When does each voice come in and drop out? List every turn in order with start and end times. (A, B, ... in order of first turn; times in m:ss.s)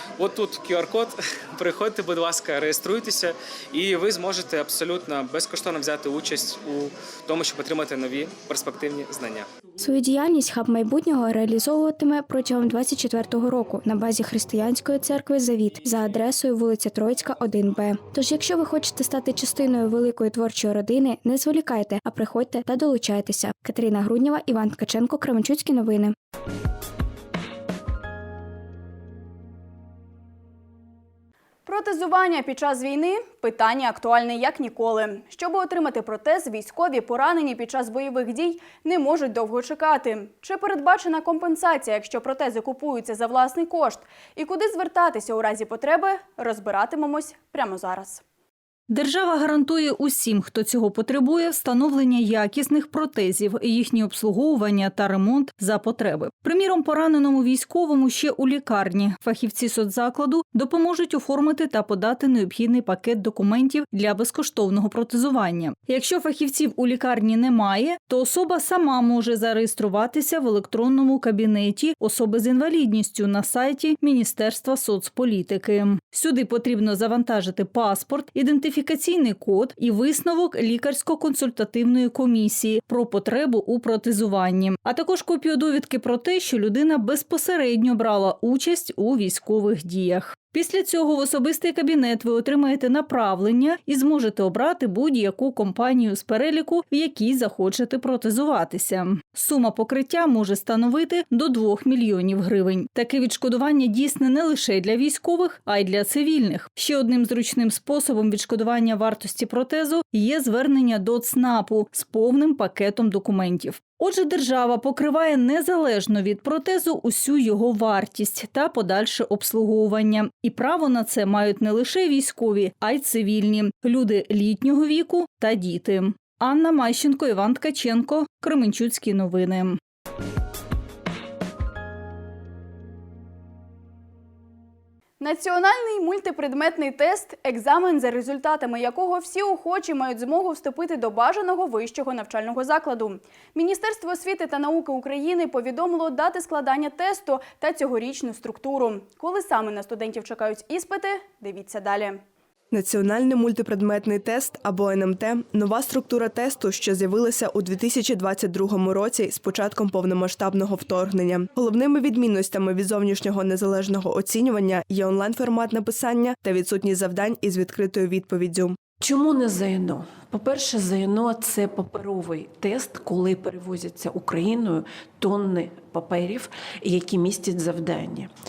0:00.2-0:09.5 A
0:09.8-0:26.2 B
0:31.7-0:48.2 C
0:48.9-2:09.8 D
2:15.2-2:32.2 C
2:32.7-2:48.8 E
2:49.0-2:58.3 F